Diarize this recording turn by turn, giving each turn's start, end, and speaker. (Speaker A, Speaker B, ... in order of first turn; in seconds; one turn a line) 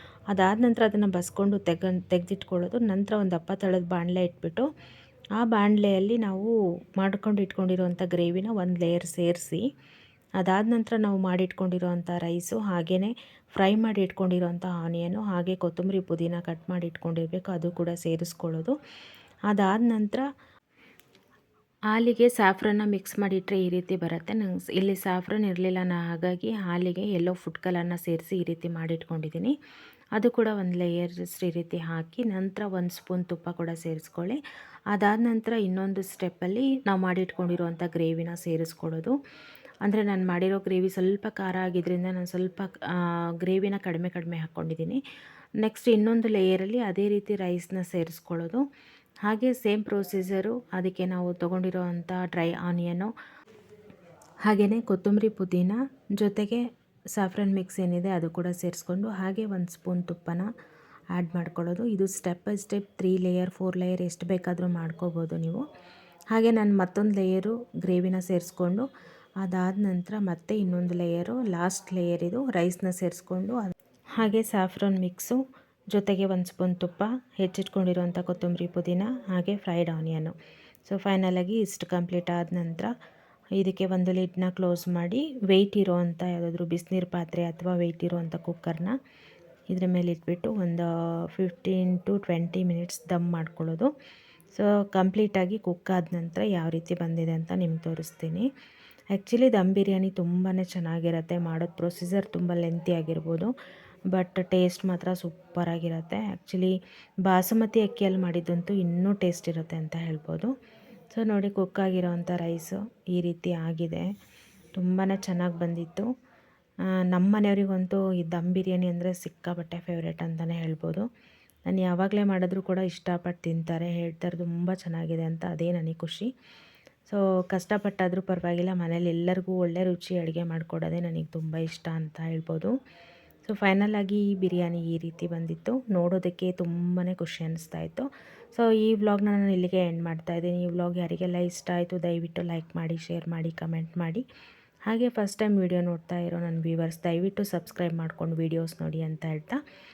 Speaker A: 0.3-4.7
Speaker A: 5.4-9.6
Speaker A: 10.4-18.8
Speaker A: 19.5-20.2
Speaker A: 21.9-29.5
Speaker A: 30.1-34.4
Speaker A: 34.9-39.2
Speaker A: 39.8-45.0
Speaker A: 45.6-48.6
Speaker A: 49.2-53.1
Speaker A: 54.5-56.6
Speaker A: 57.2-60.5
Speaker A: 61.1-65.6
Speaker A: 66.3-68.9
Speaker A: 69.4-75.4
Speaker A: 75.9-80.3
Speaker A: 80.9-82.9
Speaker A: 83.6-88.9
Speaker A: 89.7-93.9
Speaker A: 94.5-98.5
Speaker A: 99.1-103.5
Speaker A: 104.1-106.7
Speaker A: 107.2-110.5
Speaker A: 111.1-114.1
Speaker A: 114.8-116.1
Speaker A: 117.1-121.0
Speaker A: 121.7-126.3
Speaker A: 127.1-132.7
Speaker A: 133.4-144.2
Speaker A: 144.9-149.6